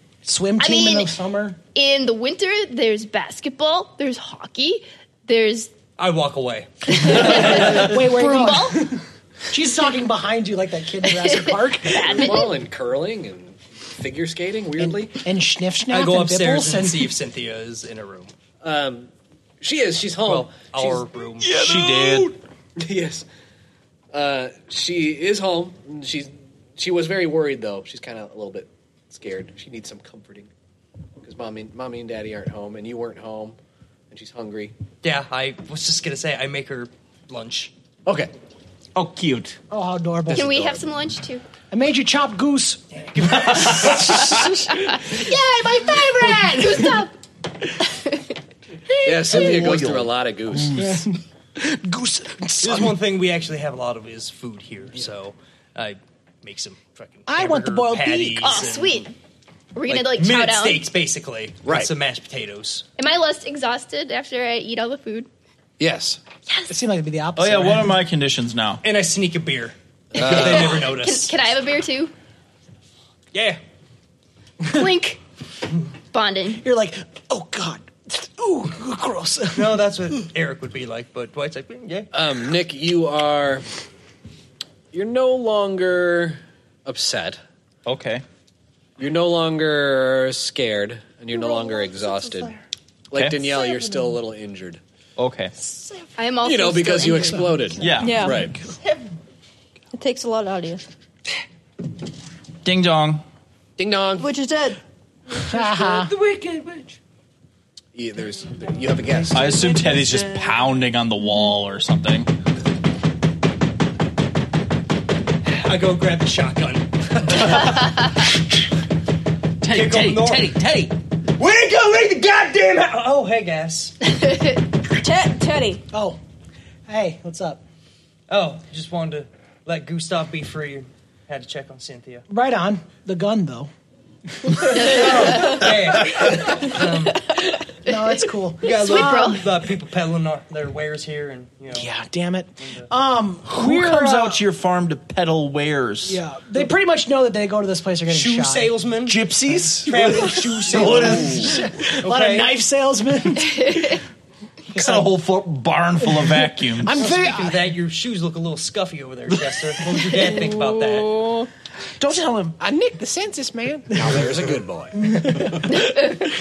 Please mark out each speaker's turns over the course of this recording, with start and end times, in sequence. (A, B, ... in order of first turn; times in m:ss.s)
0:00.2-0:01.6 A
0:00.6-0:01.1 B
0:01.8-0:05.7 B
0:06.0-0:08.0 C
0:06.9-0:09.0 B
0:07.1-0:12.4 A
0:11.1-0:12.6 B
0:12.0-0:15.2 D
0:14.8-0:17.2 A
0:15.9-0:18.3 C
0:18.6-0:19.1 D
0:19.6-0:23.2 D
0:20.2-0:21.6 C
0:21.4-0:22.4 E
0:24.1-0:30.5 D
0:31.2-0:33.6 D
0:34.1-0:34.7 D
0:35.0-0:37.7 C
0:38.1-0:38.3 D
0:39.0-0:39.6 E
0:39.7-0:40.8 A
0:40.3-0:41.4 B
0:41.7-0:47.1 A
0:43.1-0:44.2 C
0:43.5-0:44.7 E
0:46.5-0:47.1 B
0:47.8-0:48.2 B
0:49.0-0:50.9 D
0:49.1-0:49.9 A
0:49.3-0:50.1 E
0:50.5-0:53.0 A
0:52.6-0:59.1 C
0:57.3-0:58.6 A
0:58.4-0:59.1 B
0:59.8-1:00.9 B
0:59.9-1:02.8 C
1:01.6-1:01.9 D
1:03.0-1:05.3 B
1:05.8-1:06.2 D
1:06.7-1:08.0 A
1:07.4-1:08.8 E
1:08.8-1:11.3 C
1:10.2-1:10.8 D
1:10.2-1:12.1 B
1:13.3-1:13.6 C
1:14.6-1:14.9 A
1:14.6-1:15.2 B
1:16.1-1:16.6 B
1:16.6-1:20.3 A
1:19.5-1:22.1 C
1:22.1-1:23.7 D
1:24.9-1:27.4 D
1:27.9-1:28.2 E
1:29.0-1:32.5 D
1:31.4-1:32.5 C
1:33.1-1:34.8 D
1:33.2-1:33.6 E
1:35.2-1:35.5 E
1:36.2-1:37.6 B
1:36.4-1:38.6 D
1:37.8-1:38.5 E
1:38.0-1:38.4 F
1:39.9-1:40.8 F
1:42.6-1:43.2 E
1:43.8-1:44.3 D
1:44.2-1:44.8 F
1:45.3-1:47.0 G
1:45.5-1:46.1 A
1:47.9-1:49.8 D
1:49.3-1:52.3 E
1:49.5-1:50.4 G
1:55.4-1:58.1 C
1:59.6-2:01.0 E
1:59.6-2:00.6 C
2:01.4-2:04.0 C
2:04.9-2:05.8 F
2:05.9-2:06.2 A
2:06.9-2:07.6 A
2:08.3-2:12.2 C
2:12.3-2:13.7 A
2:14.4-2:15.7 A
2:14.8-2:17.3 C
2:17.8-2:19.4 A
2:17.9-2:19.5 B
2:18.6-2:21.9 C
2:21.7-2:24.4 A
2:22.6-2:22.9 C
2:23.5-2:26.2 E
2:26.0-2:28.7 A
2:28.1-2:29.3 C
2:29.1-2:31.7 E
2:29.8-2:32.5 C
2:29.8-2:34.0 A
2:34.7-2:35.1 A
2:34.7-2:37.1 E
2:36.0-2:37.7 A
2:37.0-2:41.3 C
2:40.5-2:41.5 F
2:42.0-2:42.6 E
2:42.6-2:45.8 A
2:43.9-2:45.6 D
2:45.7-2:46.2 B